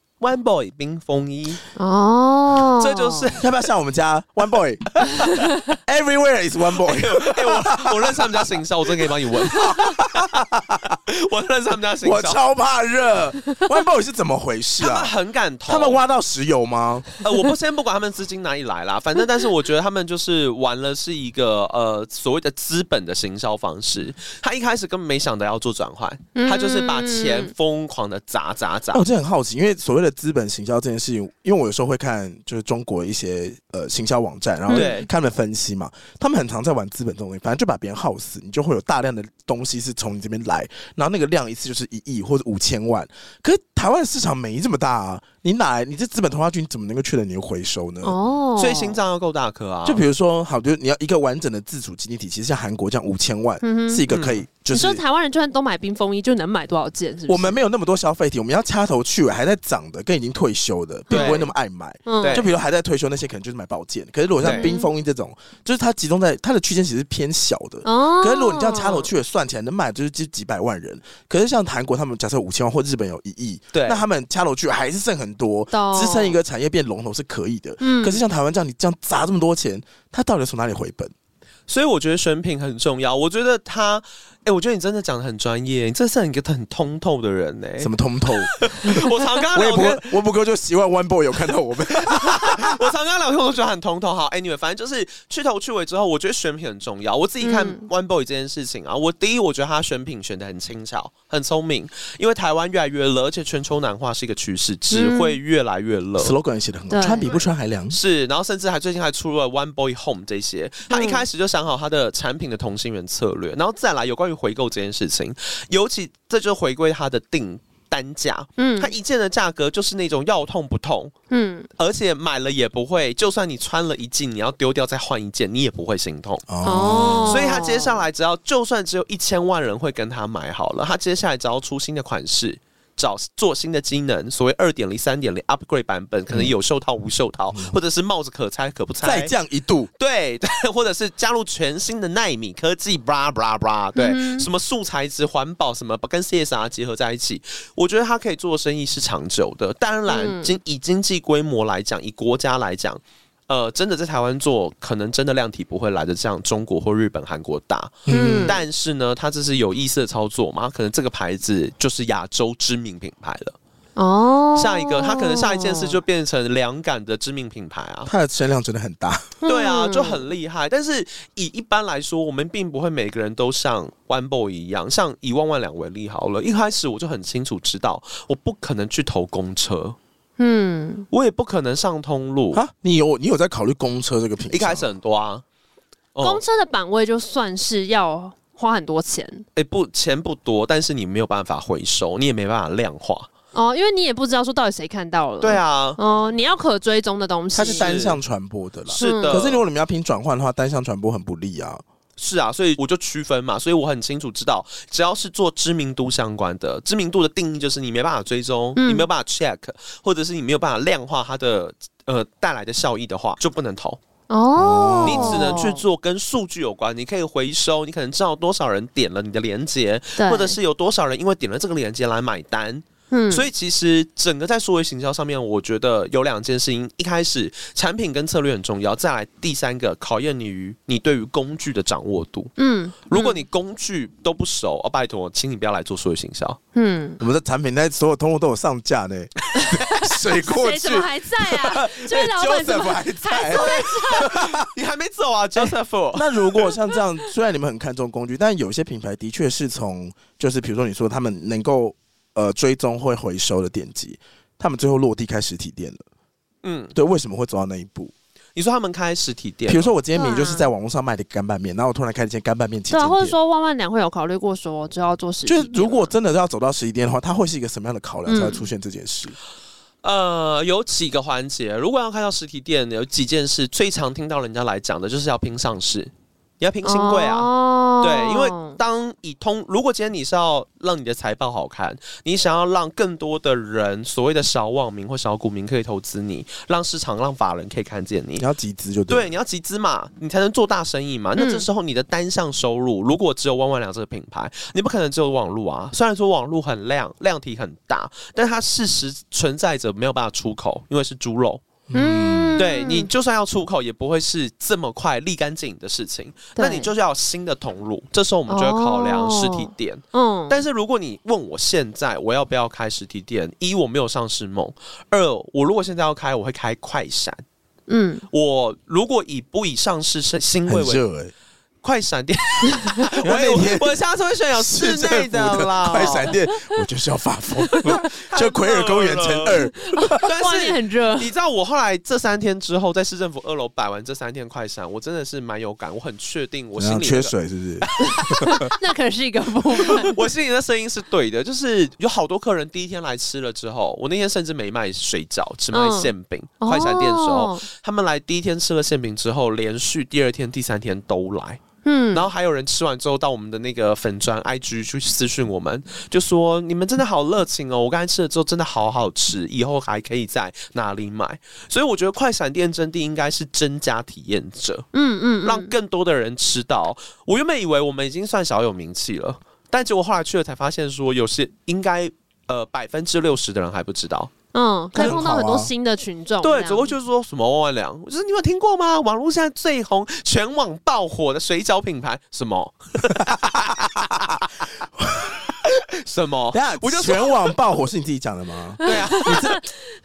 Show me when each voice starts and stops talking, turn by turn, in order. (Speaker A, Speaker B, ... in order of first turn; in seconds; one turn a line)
Speaker A: 0.2-1.6
Speaker B: 1.8-3.3
Speaker A: 2.8-3.5
Speaker C: 3.4-10.9
Speaker A: 6.8-10.2
Speaker A: 11.1-12.4
Speaker C: 12.0-15.1
Speaker A: 14.8-16.0
Speaker C: 15.7-17.1
Speaker A: 17.2-29.0
Speaker B: 26.3-27.5
Speaker C: 28.9-48.2
Speaker B: 34.7-34.9
Speaker A: 34.7-35.1
Speaker B: 48.0-49.0
Speaker A: 48.6-50.0
Speaker C: 49.8-55.0
Speaker B: 53.6-54.0
Speaker A: 54.1-54.4
Speaker B: 54.7-57.6
Speaker C: 57.3-81.1
Speaker B: 61.1-61.5
Speaker A: 61.1-61.5
Speaker B: 62.0-62.4
Speaker A: 62.2-62.5
Speaker A: 64.4-64.7
Speaker B: 64.4-64.9
Speaker B: 67.8-69.1
Speaker A: 73.7-74.0
Speaker B: 75.7-76.4
Speaker B: 77.8-78.2
Speaker A: 81.7-90.2
Speaker C: 87.8-89.0
Speaker C: 89.5-92.8
Speaker A: 91.9-106.3
Speaker B: 97.4-97.8
Speaker B: 104.9-105.4
Speaker C: 106.2-108.0
Speaker B: 106.9-107.3
Speaker A: 107.9-121.1
Speaker B: 110.9-111.2
Speaker B: 118.6-118.9
Speaker B: 121.3-121.7
Speaker A: 121.8-126.4
Speaker C: 126.5-127.5
Speaker B: 126.6-128.0
Speaker A: 127.2-139.3
Speaker C: 139.0-139.9
Speaker A: 140.0-163.6
Speaker B: 143.9-144.5
Speaker B: 150.1-150.5
Speaker C: 158.1-158.6
Speaker B: 158.1-158.6
Speaker B: 164.0-165.9
Speaker A: 164.6-168.1
Speaker C: 168.1-169.3
Speaker B: 169.4-170.2
Speaker A: 169.4-180.0
Speaker B: 180.4-181.1
Speaker A: 181.1-182.6
Speaker C: 182.5-184.9
Speaker A: 184.5-185.4
Speaker A: 186.1-186.4
Speaker B: 186.2-189.4
Speaker A: 189.5-193.3
Speaker B: 193.5-197.9
Speaker A: 195.4-196.0
Speaker C: 197.5-201.8
Speaker A: 197.6-198.2
Speaker A: 198.9-199.6
Speaker B: 199.0-199.5
Speaker A: 202.2-214.0
Speaker B: 208.8-209.1
Speaker B: 214.3-215.8
Speaker C: 214.6-215.6
Speaker A: 215.0-232.5
Speaker B: 220.2-220.6
Speaker B: 223.1-223.4
Speaker B: 232.6-233.4
Speaker A: 233.1-236.6
Speaker B: 236.7-237.2
Speaker C: 237.2-244.7
Speaker B: 239.5-244.3
Speaker A: 243.5-246.7
Speaker C: 245.6-256.0
Speaker A: 256.6-256.9
Speaker C: 256.9-258.1
Speaker A: 258.6-259.9
Speaker C: 259.7-263.4
Speaker B: 260.1-260.7
Speaker B: 262.9-266.1
Speaker C: 265.4-269.4
Speaker B: 268.2-268.7
Speaker A: 270.0-288.4
Speaker B: 276.8-278.8
Speaker C: 288.4-289.3
Speaker A: 289.1-301.6
Speaker B: 291.4-291.6
Speaker C: 301.9-302.6
Speaker B: 301.9-303.1
Speaker A: 302.6-317.4
Speaker B: 306.6-306.9
Speaker B: 308.5-310.6
Speaker B: 317.9-318.2
Speaker A: 318.3-321.0
Speaker C: 320.7-321.3
Speaker A: 321.8-326.4
Speaker C: 323.2-324.0
Speaker C: 324.6-330.2
Speaker A: 327.8-329.6
Speaker B: 329.7-331.3
Speaker A: 330.2-337.3
Speaker C: 336.8-338.7
Speaker A: 337.9-338.7
Speaker B: 338.1-340.2
Speaker A: 339.9-364.9
Speaker B: 345.7-347.6
Speaker B: 351.8-352.3
Speaker B: 364.9-365.7
Speaker A: 365.4-374.3
Speaker B: 374.5-376.9
Speaker A: 374.9-375.2
Speaker C: 374.9-375.7
Speaker A: 376.4-384.3
Speaker C: 383.2-384.4
Speaker C: 385.0-385.4
Speaker A: 385.6-387.6
Speaker C: 386.5-389.6
Speaker A: 388.8-389.5
Speaker B: 388.8-389.6